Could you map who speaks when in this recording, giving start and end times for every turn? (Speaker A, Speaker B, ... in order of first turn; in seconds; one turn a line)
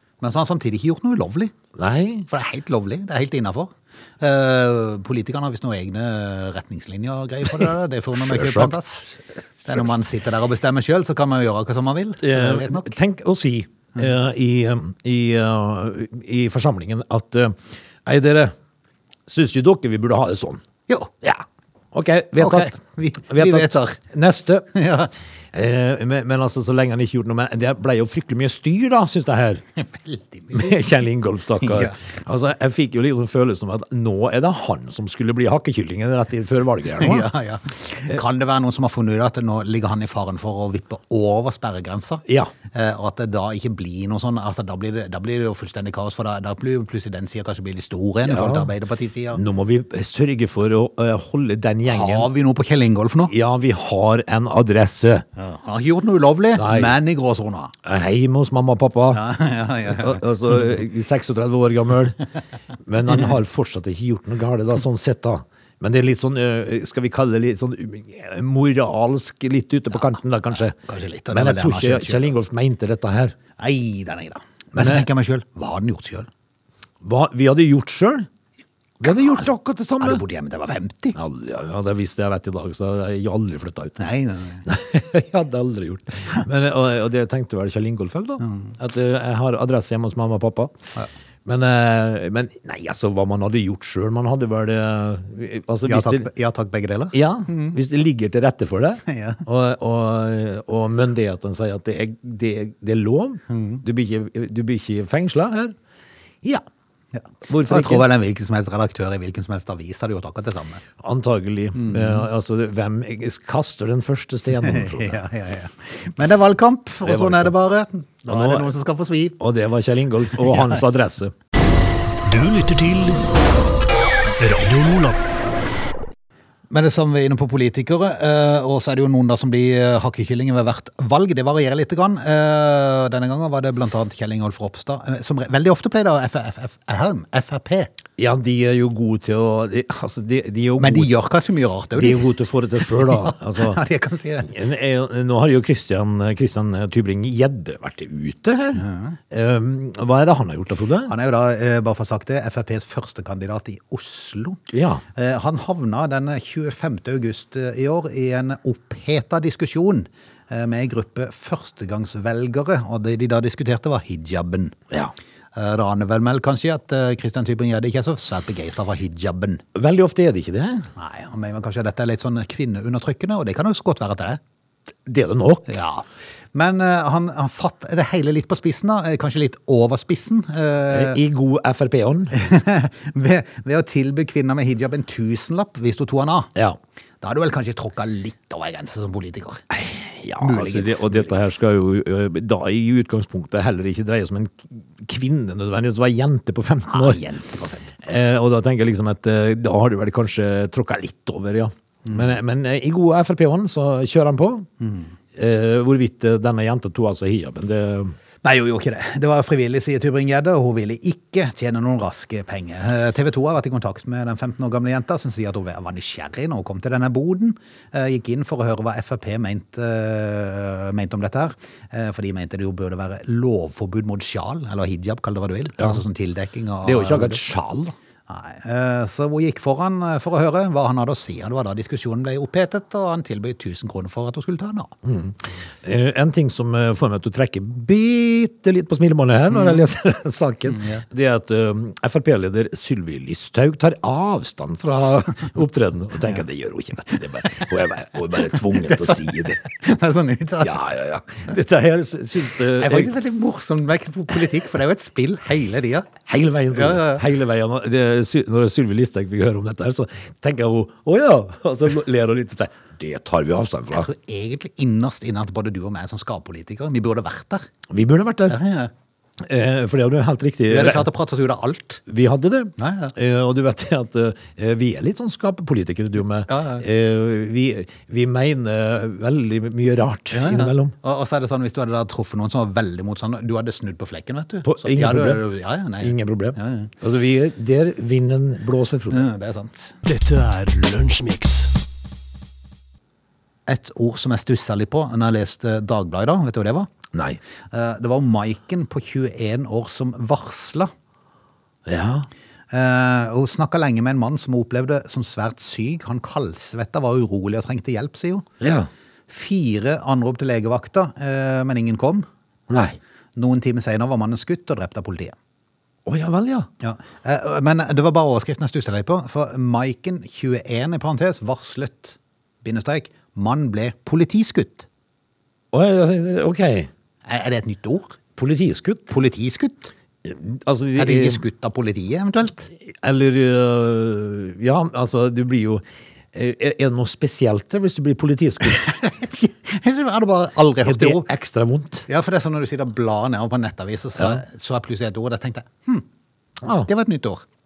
Speaker A: 0.2-1.5
Speaker B: 1.7-2.3
Speaker A: 2.3-12.9
Speaker B: 7.5-9.9
Speaker B: 12.2-18.5
Speaker B: 19.3-20.6
Speaker B: 21.2-24.7
Speaker A: 22.4-24.0
Speaker A: 24.7-25.1
Speaker B: 25.5-29.6
Speaker A: 29.8-30.8
Speaker B: 30.5-37.3
Speaker A: 31.6-31.9
Speaker A: 37.0-49.4
Speaker B: 42.3-42.5
Speaker B: 48.2-48.7
Speaker B: 49.3-52.3
Speaker A: 51.9-53.3
Speaker B: 53.3-55.2
Speaker A: 55.4-57.7
Speaker B: 56.6-56.9
Speaker B: 57.8-59.2
Speaker A: 59.1-60.2
Speaker B: 59.9-62.2
Speaker B: 62.8-70.8
Speaker A: 70.8-72.3
Speaker B: 71.3-73.3
Speaker A: 73.6-76.3
Speaker B: 74.8-75.1
Speaker B: 77.0-78.3
Speaker B: 79.0-80.2
Speaker A: 79.0-79.5
Speaker A: 80.0-81.2
Speaker B: 81.1-84.0
Speaker A: 84.0-84.6
Speaker B: 84.6-90.7
Speaker A: 88.4-88.8
Speaker B: 91.4-96.3
Speaker A: 95.8-97.8
Speaker B: 97.1-105.8
Speaker A: 99.0-99.4
Speaker A: 103.5-103.8
Speaker A: 107.1-110.8
Speaker B: 107.5-108.1
Speaker B: 111.0-115.2
Speaker A: 111.7-112.3
Speaker A: 114.6-119.4
Speaker B: 117.0-117.5
Speaker B: 118.3-118.7
Speaker B: 119.4-121.3
Speaker A: 120.3-120.8
Speaker C: 122.2-123.2
Speaker C: 124.4-125.2
Speaker A: 126.7-137.9
Speaker B: 138.2-141.1
Speaker A: 140.8-144.5
Speaker B: 141.9-143.8
Speaker B: 144.4-151.1
Speaker A: 148.8-149.2
Speaker A: 151.1-154.6
Speaker B: 154.7-155.0
Speaker A: 155.1-164.7
Speaker A: 165.5-169.6
Speaker B: 169.7-170.9
Speaker A: 170.9-174.4
Speaker B: 175.1-175.7
Speaker A: 175.7-181.2
Speaker B: 180.9-182.4
Speaker A: 182.3-186.5
Speaker A: 187.2-189.6
Speaker B: 189.7-197.2
Speaker A: 190.4-191.5
Speaker A: 196.9-197.9
Speaker B: 198.0-204.7
Speaker A: 204.8-205.1
Speaker B: 205.3-208.2
Speaker A: 208.4-227.4
Speaker B: 226.8-227.9
Speaker A: 228.3-234.9
Speaker B: 235.0-249.6
Speaker A: 240.7-241.0
Speaker A: 248.7-250.8
Speaker B: 250.6-253.1
Speaker A: 252.7-256.1
Speaker B: 256.2-264.1
Speaker A: 256.7-257.2
Speaker A: 263.9-267.7
Speaker B: 267.9-268.6
Speaker A: 268.5-268.9
Speaker B: 269.4-271.1
Speaker A: 270.7-272.0
Speaker B: 272.1-280.9
Speaker A: 272.8-273.1
Speaker A: 276.5-276.9
Speaker A: 280.3-286.9
Speaker B: 284.6-285.4
Speaker B: 286.0-289.2
Speaker A: 289.1-289.9
Speaker C: 290.0-291.7
Speaker A: 293.7-296.9
Speaker B: 297.1-297.4
Speaker A: 297.7-300.9
Speaker B: 301.9-302.3
Speaker A: 302.7-308.4
Speaker B: 308.6-308.9
Speaker A: 309.3-312.2
Speaker B: 312.7-313.0
Speaker A: 313.4-315.4
Speaker B: 316.1-316.7
Speaker A: 316.8-324.9
Speaker B: 325.7-326.9
Speaker A: 327.2-328.2
Speaker B: 328.4-329.1
Speaker A: 329.1-329.9
Speaker B: 330.2-331.4
Speaker A: 330.9-332.7
Speaker B: 333.0-335.8
Speaker B: 336.3-338.8
Speaker A: 338.6-341.2
Speaker B: 340.8-342.1
Speaker A: 342.1-346.1
Speaker B: 346.6-346.9
Speaker A: 346.8-347.4